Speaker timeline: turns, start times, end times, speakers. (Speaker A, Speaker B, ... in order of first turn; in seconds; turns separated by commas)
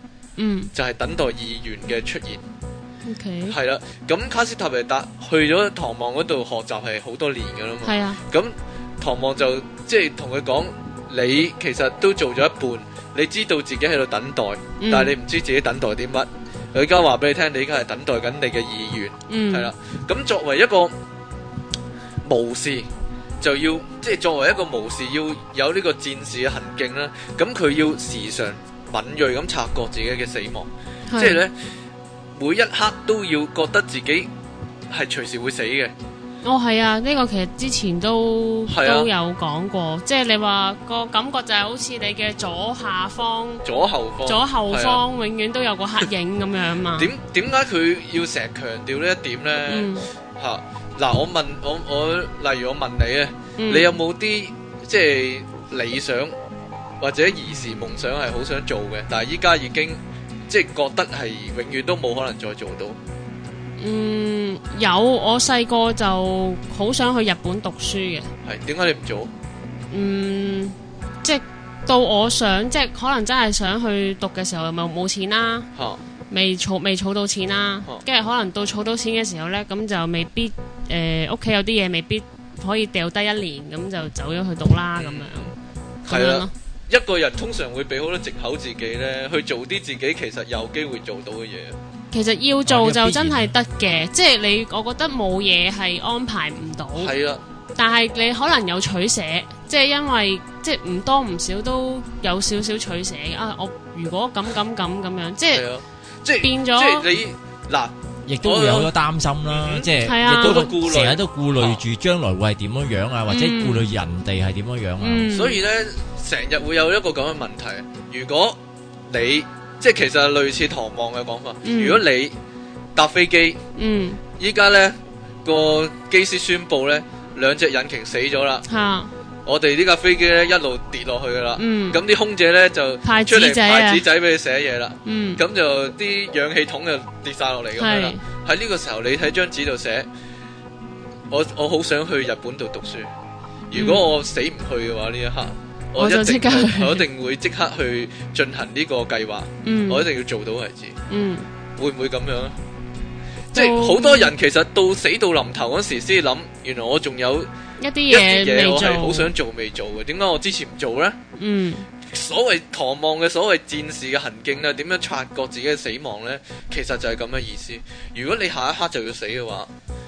Speaker A: 0.4-0.7, Speaker B: 0.7-2.4, Speaker A: 3.0-3.5, Speaker B: 3.5-20.9, Speaker A: 7.8-8.2, Speaker A: 14.8-15.1, Speaker A: 19.3-19.7, Speaker B: 22.2-22.9, Speaker B: 23.4-31.5, Speaker A: 31.1-31.4, Speaker B: 32.4-34.3, Speaker B: 34.9-35.9, Speaker A: 36.4-43.6, Speaker B: 38.7-39.1, Speaker B: 43.6-45.0, Speaker A: 44.2-47.1, Speaker B: 47.0-56.3, Speaker A: 49.7-50.1, Speaker A: 53.6-53.9, Speaker B: 57.0-63.0, Speaker A: 63.8-68.3, Speaker B: 68.4-69.3, Speaker A: 69.9-75.7, Speaker B: 75.8-76.0, Speaker A: 76.3-85.5, Speaker B: 84.9-85.5, Speaker B: 86.1-91.8, Speaker A: 86.1-86.5, Speaker A: 92.1-97.1, Speaker C: 92.6-93.5, Speaker B: 97.0-97.4, Speaker A: 97.8-105.7, Speaker B: 105.5-108.9, Speaker A: 106.4-107.1, Speaker C: 108.2-115.3, Speaker B: 109.5-111.8, Speaker A: 110.0-110.7, Speaker A: 113.3-113.8, Speaker A: 115.0-115.6, Speaker B: 115.3-118.6, Speaker B: 119.1-122.3, Speaker A: 121.6-122.0, Speaker B: 123.0-123.6, Speaker A: 123.8-124.2, Speaker B: 124.4-128.7, Speaker A: 128.7-129.1, Speaker B: 129.4-140.1, Speaker A: 131.6-132.0, Speaker A: 133.0-134.0, Speaker A: 135.0-135.4, Speaker A: 137.8-138.2, Speaker B: 141.3-143.1, Speaker B: 143.7-151.0, Speaker A: 143.7-144.1, Speaker A: 146.0-147.0, Speaker A: 149.6-150.1, Speaker A: 151.1-151.5, Speaker B: 151.8-152.6, Speaker B: 153.5-157.5, Speaker A: 153.5-154.3, Speaker A: 157.8-159.3, Speaker B: 158.1-161.2, Speaker A: 161.3-161.8, Speaker B: 162.1-169.7